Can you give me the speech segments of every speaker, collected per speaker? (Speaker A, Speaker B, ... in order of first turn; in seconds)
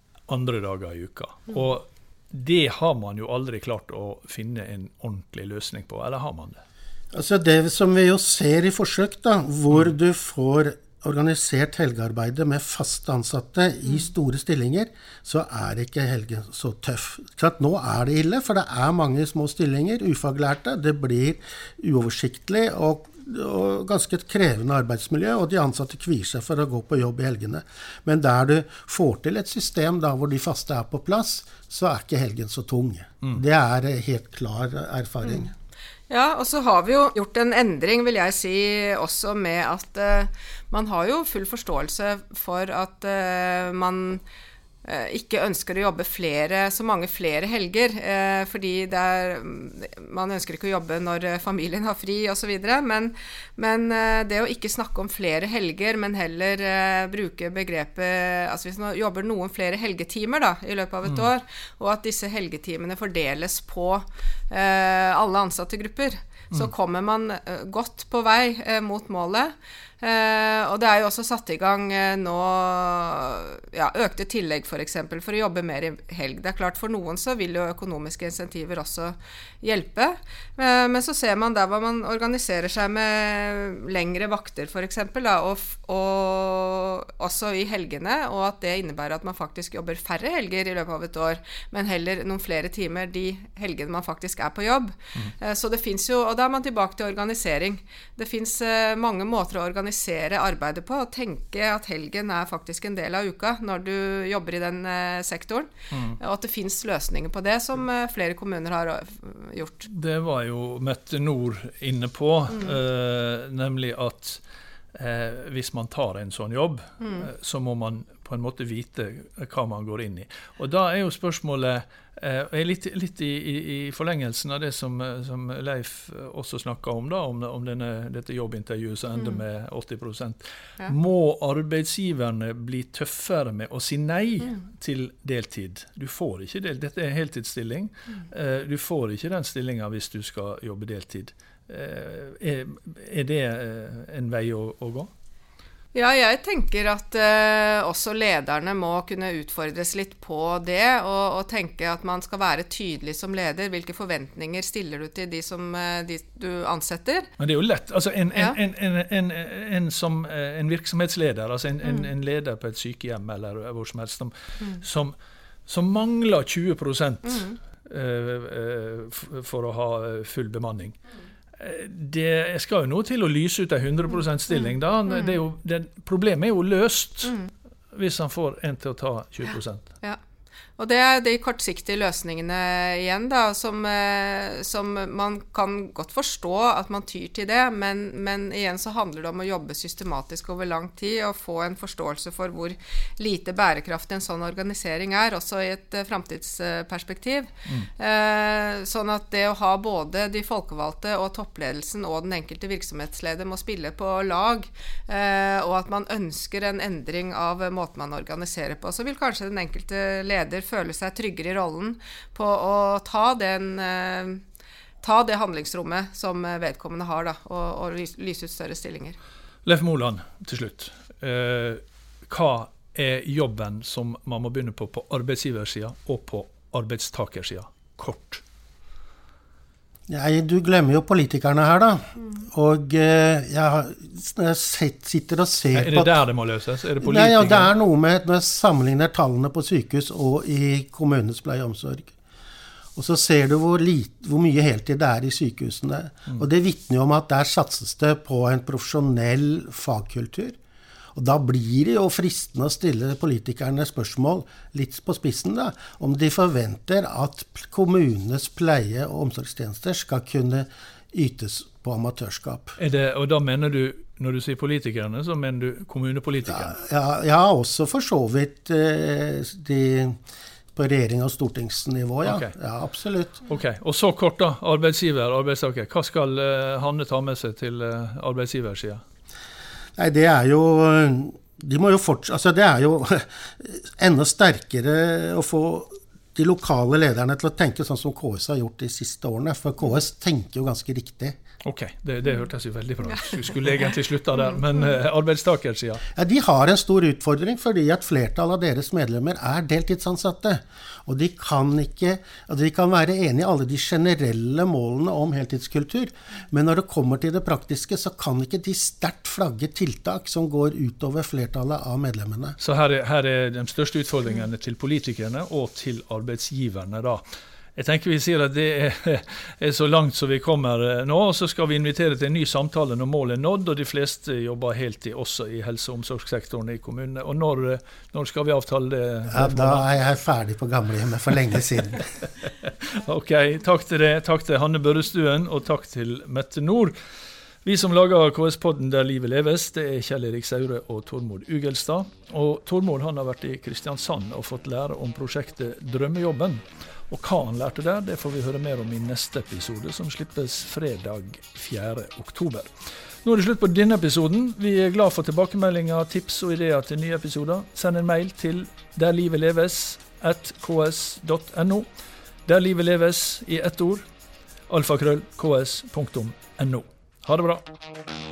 Speaker A: 0.3-6.6, 61.0-61.3, 105.9-106.2, 109.9-114.4, 114.9-145.1, 157.4-165.2, 165.7-171.0, 171.6-177.3, 177.9-179.8, 219.6-228.4, 235.7-237.7, 262.8-266.8, 272.2-272.5, 273.5-279.0, 291.6-296.0, 312.6-317.2, 317.8-329.9, 332.4-336.9, 337.6-352.7, 353.2-361.9, 362.4-364.0, 364.7-367.6
Speaker B: 7.1-35.5, 230.1-236.2, 237.0-242.1, 242.9-250.6, 251.1-262.8, 266.5-270.2, 270.7-273.4, 280.0-291.4, 296.1-312.6, 329.3-332.1
Speaker C: 36.1-44.2, 44.8-109.9, 112.5-112.8, 117.0-117.3, 129.1-129.4, 145.9-157.3, 158.3-158.6, 161.8-162.1, 167.2-167.6, 174.5-175.4, 177.2-177.5, 180.8-214.4, 215.0-219.2